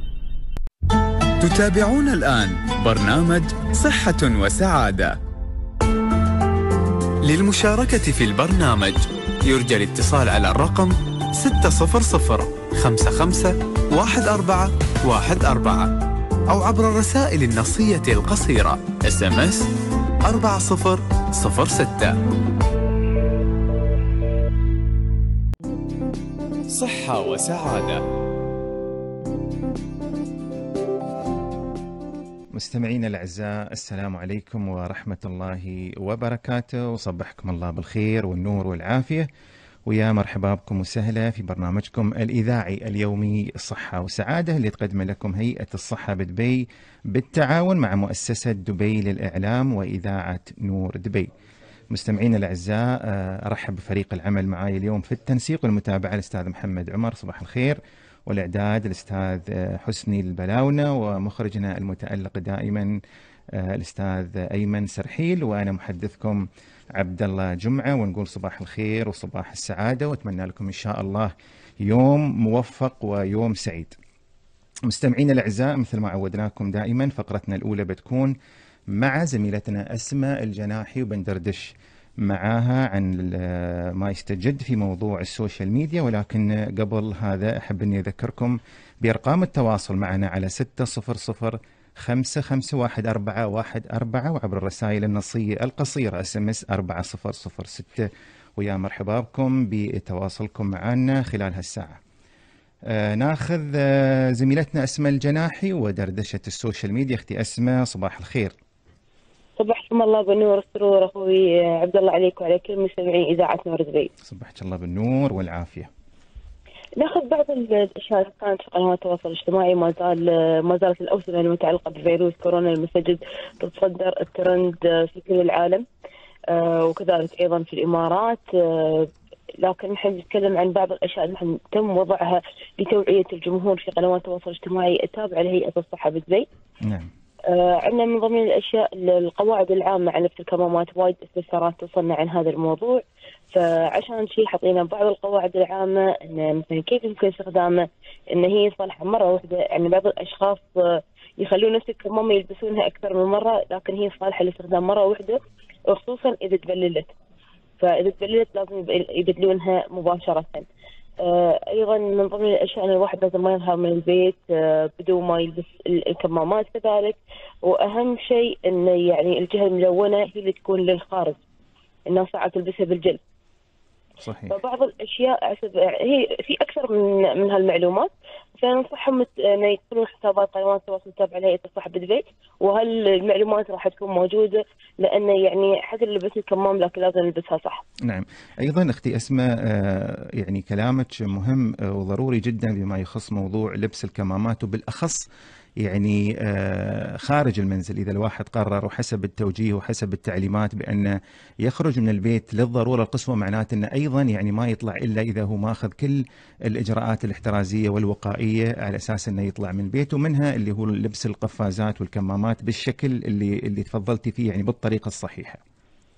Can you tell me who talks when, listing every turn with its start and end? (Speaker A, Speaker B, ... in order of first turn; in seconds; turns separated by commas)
Speaker A: 1.4-5.2, Speaker A: 7.2-15.9, Speaker A: 16.5-19.7, Speaker A: 20.2-22.1, Speaker A: 26.7-28.0, Speaker B: 32.5-39.3, Speaker B: 39.9-51.3, Speaker B: 51.9-62.9, Speaker B: 63.6-66.4, Speaker B: 67.0-71.3, Speaker B: 71.8-74.0, Speaker B: 74.9-78.3, Speaker B: 78.9-102.0, Speaker B: 102.9-108.5, Speaker C: 109.6-114.1, Speaker B: 114.2-115.9, Speaker C: 117.0-125.8, Speaker C: 126.5-136.4, Speaker B: 136.8-137.1, Speaker C: 137.4-157.1, Speaker C: 157.8-160.6, Speaker C: 161.2-171.4, Speaker C: 172.1-173.2, Speaker B: 174.2-174.6, Speaker C: 174.5-187.8, Speaker B: 188.0-195.2, Speaker B: 195.8-215.6